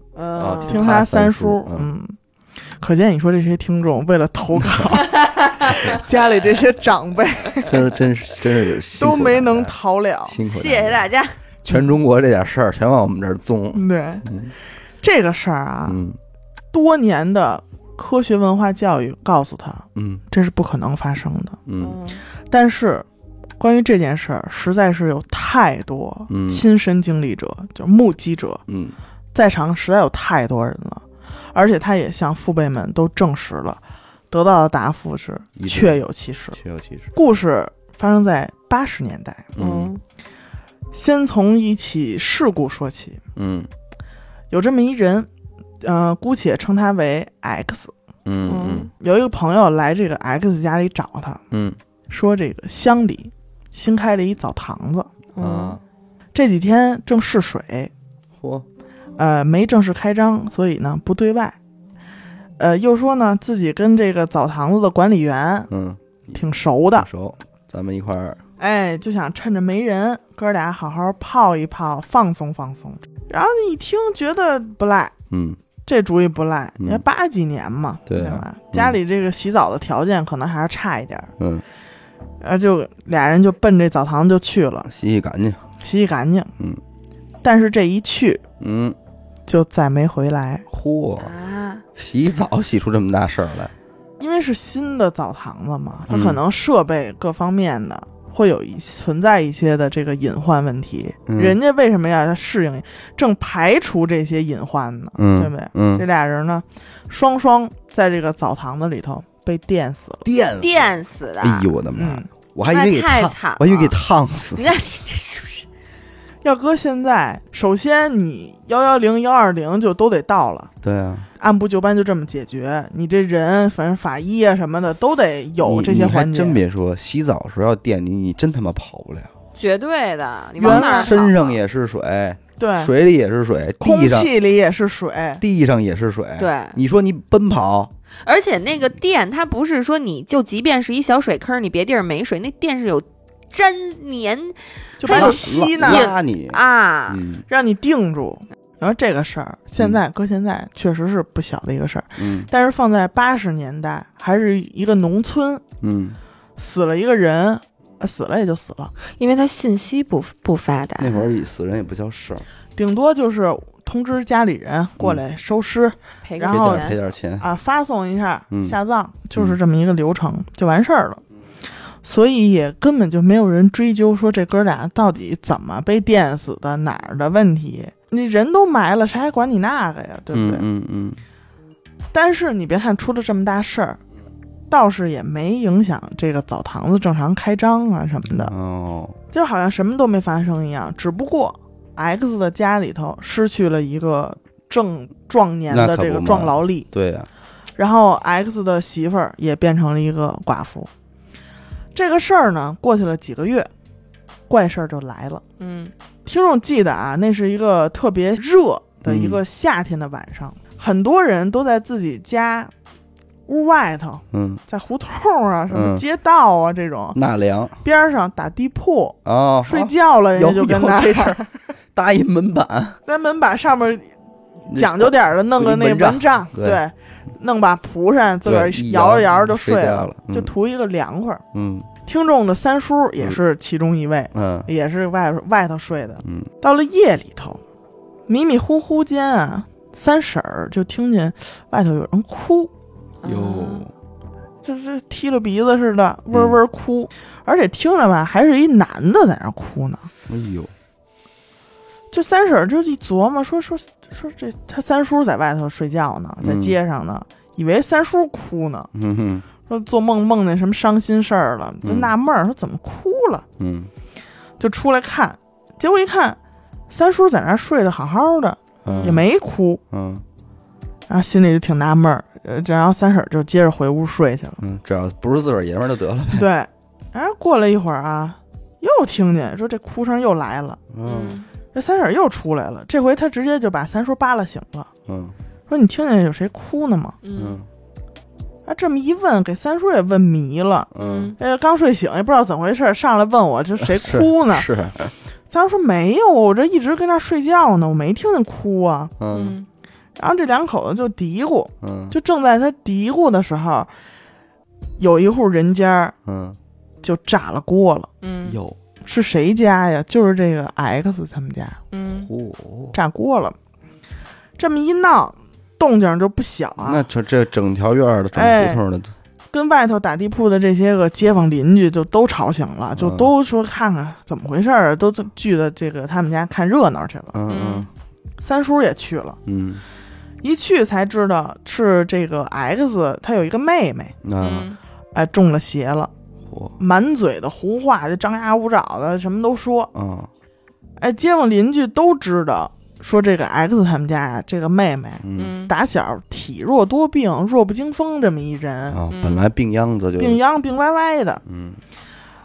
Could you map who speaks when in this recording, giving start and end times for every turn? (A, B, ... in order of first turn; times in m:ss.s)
0:00.2-0:00.9 A
0:00.4-0:01.9 B
0:00.7-0:02.2 C
0:02.7-0:07.8 C
0:05.2-0:05.9 A
0:07.6-0:09.7 B
0:08.9-0:10.4 C
0:10.3-0:11.1 B
0:10.4-0:11.4 A
0:11.6-0:14.5 B
0:13.7-0:14.3 C
0:15.0-0:16.0 C
0:15.9-0:16.2 B
0:16.7-0:21.6 C
0:20.0-0:20.2 B
0:21.7-0:22.0 B
0:21.8-0:22.2 A
0:22.4-0:23.1 C
0:23.6-0:28.6 C
0:26.3-0:26.6 B
0:28.7-0:29.0 B
0:29.3-0:36.6 C
0:35.6-0:36.0 B
0:36.5-0:37.1 B
0:37.1-0:39.5 C
0:39.6-0:39.9 B
0:39.6-0:40.0 A
0:40.9-0:43.2 C
0:43.4-0:43.7 B
0:44.5-0:45.3 C
0:45.8-0:47.9 C
0:48.3-0:48.9 B
0:48.5-0:48.9 A
0:49.0-0:51.4 C
0:51.5-0:51.8 B
0:52.1-0:55.1 C
0:55.4-0:55.8 A
0:55.4-0:55.8 B
0:56.3-0:57.9 C
0:58.4-0:58.7 B
0:59.2-1:01.6 C
1:02.6-1:05.7 C
1:05.7-1:06.4 B
1:06.3-1:07.1 C
1:06.9-1:08.4 B
1:08.6-1:15.1 C
1:15.3-1:15.6 B
1:15.9-1:21.3 C
1:18.1-1:19.0 B
1:21.4-1:21.6 B
1:22.4-1:24.9 C
1:24.9-1:25.6 B
1:25.8-1:26.5 C
1:27.4-1:28.4 C
1:28.6-1:29.0 B
1:29.5-1:30.7 C
1:30.7-1:31.3 B
1:31.2-1:31.8 A
1:32.0-1:33.7 B
1:34.2-1:50.3 C
1:36.1-1:36.4 B
1:41.3-1:41.6 B
1:45.2-1:46.0 B
1:50.2-1:54.7 B
1:50.6-1:51.7 A
1:52.0-1:52.3 C
1:52.6-1:54.0 A
1:54.5-1:55.7 A
1:56.4-2:00.7 C
2:00.8-2:01.3 B
2:01.4-2:06.6 C
2:05.6-2:09.3 B
2:09.6-2:11.6 A
2:10.6-2:11.3 C
2:10.6-2:14.3 B
2:12.6-2:12.9 C
2:13.8-2:15.4 C
2:15.4-2:17.9 B
2:16.4-2:16.8 A
2:18.2-2:27.2 A
2:25.0-2:26.1 C
2:25.0-2:27.5 B
2:27.5-2:35.6 C
2:32.2-2:32.5 B
2:35.8-2:36.2 B
2:36.6-2:38.9 C
2:39.1-2:41.2 A
2:41.0-2:42.5 B
2:42.8-2:51.2 C
2:46.2-2:47.0 A
2:46.5-2:47.5 B
2:48.5-2:48.8 B
2:52.0-3:00.6 C
3:00.3-3:01.2 B
3:02.1-3:04.0 C
3:04.7-3:08.5 C
3:08.4-3:09.2 B
3:09.3-3:16.9 C
3:15.7-3:17.3 B
3:17.8-3:20.9 C
3:22.0-3:23.7 C
3:24.5-3:25.4 C
3:25.6-3:25.9 A
3:26.3-3:32.7 C
3:29.0-3:29.4 B
3:33.5-3:37.2 C
3:34.3-3:34.6 B
3:35.7-3:36.0 B
3:37.1-3:37.8 B
3:37.8-3:41.5 C
3:39.2-3:41.4 B
3:42.0-3:43.0 B
3:43.1-3:44.1 C
3:44.7-3:51.4 C
3:44.7-3:46.8 B
3:48.4-3:50.5 B
3:51.5-3:51.9 B
3:52.0-3:57.6 C
3:54.3-3:54.7 B
3:56.2-3:56.5 B
3:58.3-4:02.7 C
4:03.2-4:03.9 A
4:03.2-4:03.9 B
4:04.6-4:10.1 C
4:06.3-4:06.6 B
4:10.3-4:10.7 B
4:12.1-4:18.9 C
4:16.4-4:16.8 B
4:18.9-4:19.5 B
4:19.7-4:23.4 C
4:21.8-4:22.1 B
4:23.6-4:23.9 B
4:24.6-4:26.4 C
4:26.9-4:29.8 C
4:28.8-4:29.3 B
4:28.9-4:29.2 A
4:29.9-4:30.2 B
4:31.1-4:34.6 C
4:34.6-4:36.5 B
4:36.3-4:40.8 C
4:40.9-4:41.4 B
4:41.0-4:41.5 A
4:41.7-4:44.9 C
4:45.1-4:45.4 B
4:45.7-4:47.2 C
4:47.2-4:47.6 A
4:47.4-4:47.7 B
4:48.7-4:54.7 C
4:50.9-4:51.4 B
4:51.0-4:51.4 A
4:53.8-4:55.1 B
4:55.5-4:59.1 C
4:59.2-4:59.6 B
4:59.3-4:59.7 A
5:00.2-5:03.9 C
5:01.8-5:02.2 B
5:05.0-5:06.1 C
5:06.3-5:06.6 B
5:07.0-5:08.1 C
5:08.2-5:08.6 A
5:08.4-5:08.8 B
5:09.0-5:11.8 C
5:11.9-5:12.3 A
5:12.2-5:13.0 B
5:12.9-5:13.6 C
5:14.6-5:17.1 C
5:16.8-5:19.1 B
5:18.3-5:18.8 C
5:19.5-5:27.4 C
5:23.0-5:23.3 B
5:27.3-5:27.9 B
5:27.5-5:27.9 A
5:28.4-5:29.4 C
5:29.5-5:29.8 B
5:30.4-5:34.2 C
5:34.2-5:34.7 B
5:34.4-5:34.8 A
5:35.1-5:36.1 C
5:36.5-5:36.8 B
5:36.8-5:39.9 C
5:39.9-5:40.3 B
5:41.0-5:49.0 C
5:45.2-5:45.6 B
5:45.4-5:45.7 A
5:48.9-5:50.4 B
5:49.1-5:49.4 A
5:50.2-5:51.4 C
5:51.5-5:51.8 B